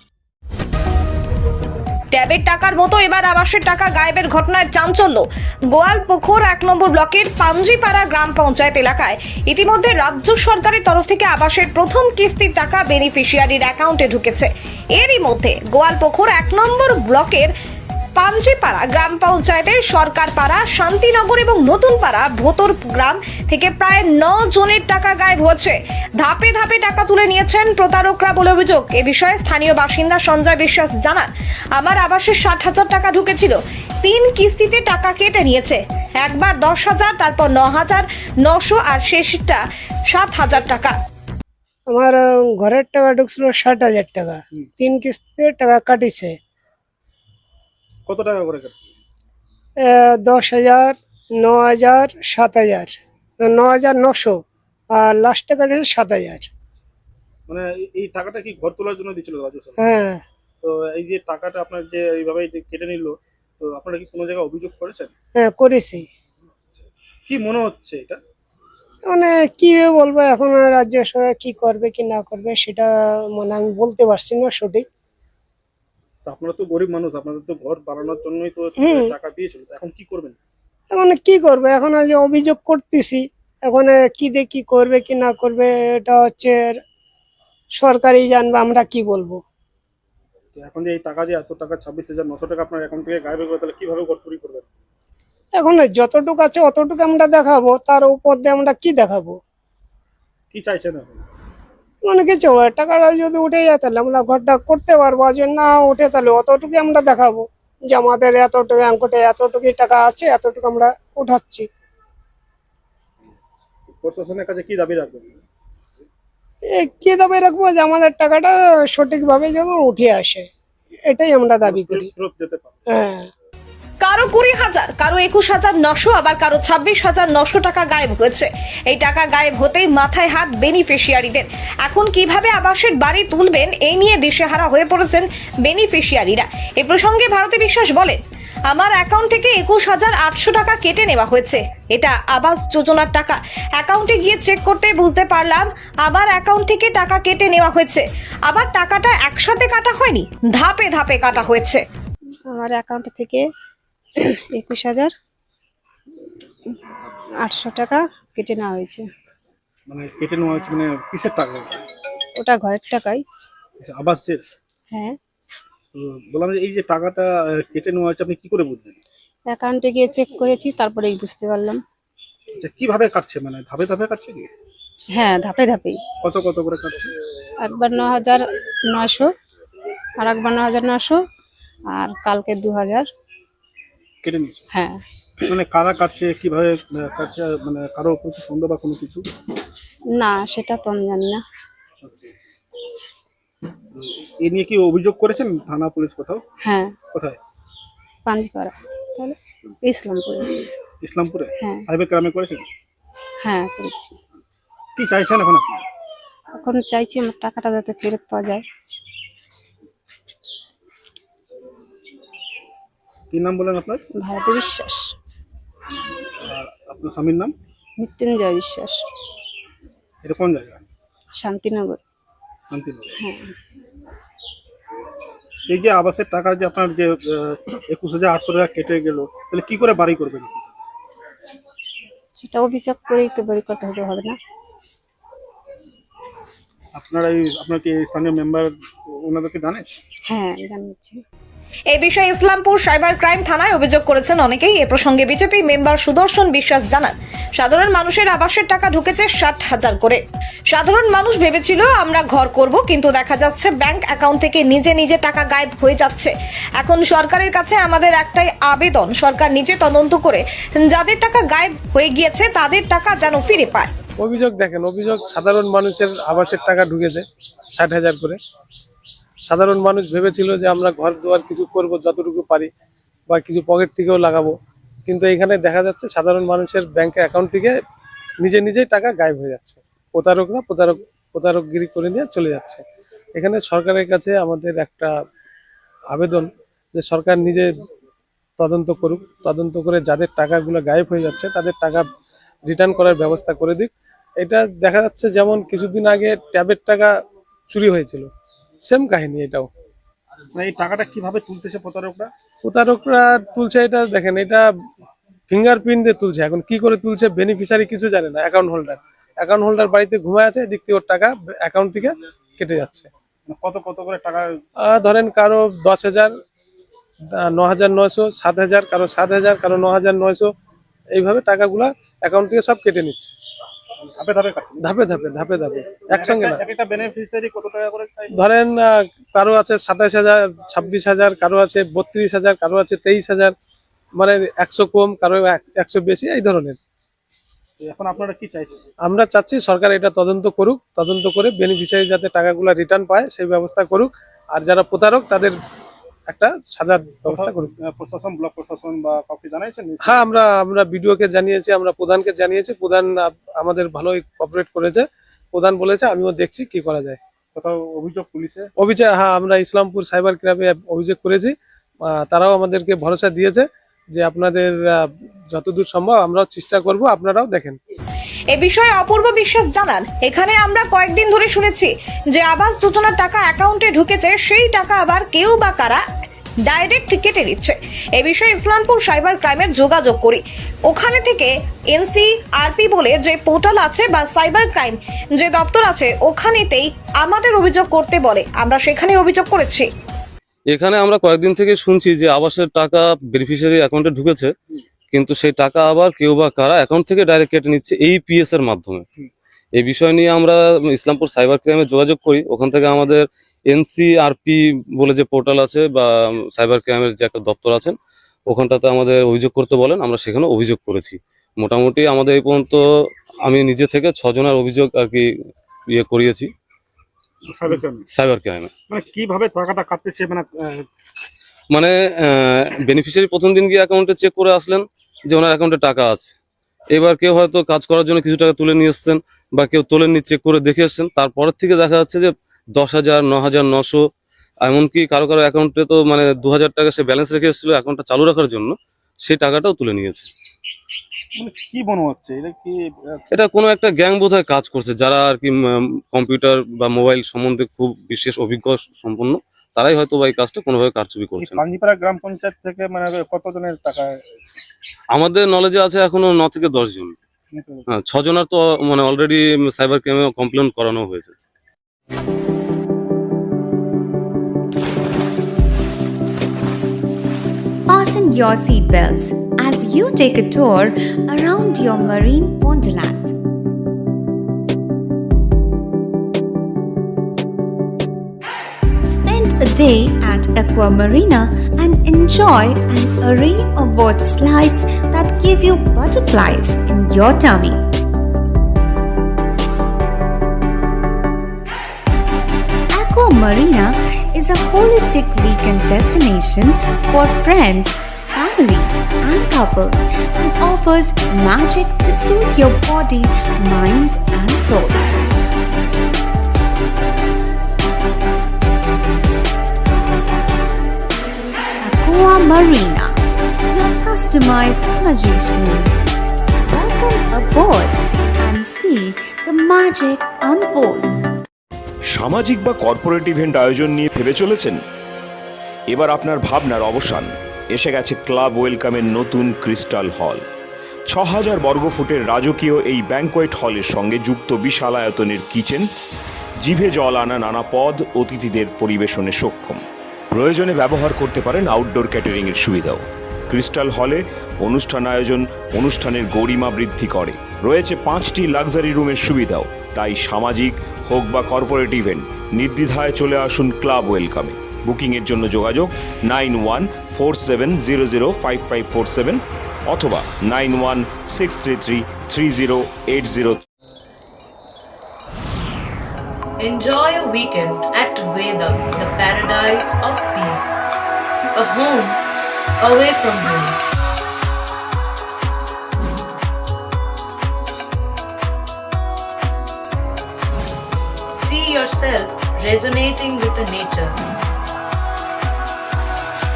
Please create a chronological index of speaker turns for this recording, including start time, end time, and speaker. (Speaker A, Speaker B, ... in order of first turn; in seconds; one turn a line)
Speaker A: 2.1-17.5
Speaker A: 18.2-41.0
Speaker B: 41.9-46.4
Speaker C: 48.1-48.9
Speaker B: 49.8-54.4
Speaker B: 54.9-56.5
Speaker C: 57.5-60.0
Speaker B: 59.8-60.2
Speaker C: 60.6-65.1
Speaker B: 65.4-66.1
Speaker C: 66.8-68.2
Speaker B: 69.1-74.8
Speaker C: 76.2-80.4
Speaker B: 78.8-79.1
Speaker B: 80.9-86.8
Speaker B: 87.8-89.4
Speaker C: 90.5-94.7
Speaker B: 95.5-99.4
Speaker C: 100.5-101.2
Speaker B: 102.0-111.7
Speaker C: 113.9-115.4
Speaker B: 116.7-120.5
Speaker B: 121.1-122.1
Speaker C: 121.6-122.8
Speaker B: 122.9-123.2
Speaker A: 124.0-138.2
Speaker A: 138.7-151.8
Speaker D: 152.5-153.4
Speaker D: 154.2-155.1
Speaker D: 157.4-159.0
Speaker C: 159.9-161.8
Speaker D: 162.4-163.2
Speaker C: 163.8-164.4
Speaker D: 164.9-165.2
Speaker C: 165.9-169.0
Speaker D: 169.5-171.8
Speaker C: 172.6-174.5
Speaker D: 175.1-176.0
Speaker C: 176.2-177.1
Speaker D: 177.6-179.3
Speaker D: 180.2-181.2
Speaker D: 181.9-183.1
Speaker C: 184.2-184.7
Speaker D: 184.7-185.0
Speaker C: 185.5-189.3
Speaker D: 190.1-191.4
Speaker C: 192.0-192.3
Speaker C: 193.9-196.4
Speaker D: 196.7-196.9
Speaker C: 197.1-197.4
Speaker D: 198.3-200.7
Speaker C: 201.0-202.7
Speaker D: 201.6-201.8
Speaker D: 203.4-204.2
Speaker C: 205.0-205.9
Speaker D: 206.6-208.7
Speaker C: 213.3-214.0
Speaker D: 214.2-215.1
Speaker C: 216.4-217.5
Speaker D: 218.0-219.0
Speaker C: 220.2-220.9
Speaker D: 221.3-222.0
Speaker C: 222.7-223.2
Speaker D: 223.2-223.5
Speaker C: 225.7-230.7
Speaker D: 232.4-234.4
Speaker C: 236.9-240.0
Speaker D: 240.3-241.2
Speaker A: 241.9-250.2
Speaker A: 250.7-263.9
Speaker E: 264.2-267.2
Speaker E: 267.8-268.4
Speaker E: 269.5-272.7
Speaker E: 273.3-274.5
Speaker E: 275.1-277.7
Speaker E: 278.4-282.8
Speaker E: 283.4-285.1
Speaker E: 286.1-287.7
Speaker E: 288.6-292.1
Speaker E: 292.7-297.1
Speaker E: 297.7-298.3
Speaker E: 298.9-299.7
Speaker C: 300.6-302.3
Speaker E: 302.6-304.6
Speaker E: 305.5-313.1
Speaker C: 313.5-314.6
Speaker E: 314.9-316.3
Speaker E: 317.5-320.5
Speaker E: 321.2-323.3
Speaker C: 324.1-324.9
Speaker E: 324.8-326.6
Speaker C: 326.1-328.4
Speaker E: 328.3-333.5
Speaker E: 334.2-336.8
Speaker C: 337.8-338.8
Speaker E: 339.1-345.5
Speaker E: 346.3-347.7
Speaker C: 347.2-350.3
Speaker E: 350.1-357.2
Speaker C: 357.6-358.7
Speaker E: 358.8-361.5
Speaker E: 362.2-367.8
Speaker A: 368.5-376.0
Speaker A: 376.7-389.9
Speaker F: 390.7-394.5
Speaker F: 395.1-399.0
Speaker F: 399.8-407.9
Speaker F: 408.5-412.8
Speaker F: 413.5-415.2
Speaker F: 415.9-416.5
Speaker C: 417.5-418.0
Speaker F: 418.1-418.7
Speaker C: 418.9-420.9
Speaker F: 421.7-426.3
Speaker F: 426.9-434.0
Speaker F: 434.6-440.3
Speaker C: 441.4-443.2
Speaker F: 443.3-445.6
Speaker F: 446.1-451.6
Speaker C: 451.4-454.2
Speaker F: 455.1-457.1
Speaker C: 457.5-457.9
Speaker F: 457.9-461.3
Speaker G: 467.9-473.3
Speaker G: 479.1-487.8
Speaker G: 492.9-505.1
Speaker G: 511.9-513.2
Speaker G: 513.7-515.9
Speaker G: 516.7-521.2
Speaker H: 522.1-524.8
Speaker H: 525.9-530.4
Speaker H: 531.1-535.9
Speaker H: 536.6-563.6
Speaker I: 566.6-570.9
Speaker I: 571.5-572.2
Speaker I: 572.8-573.8
Speaker I: 581.4-584.2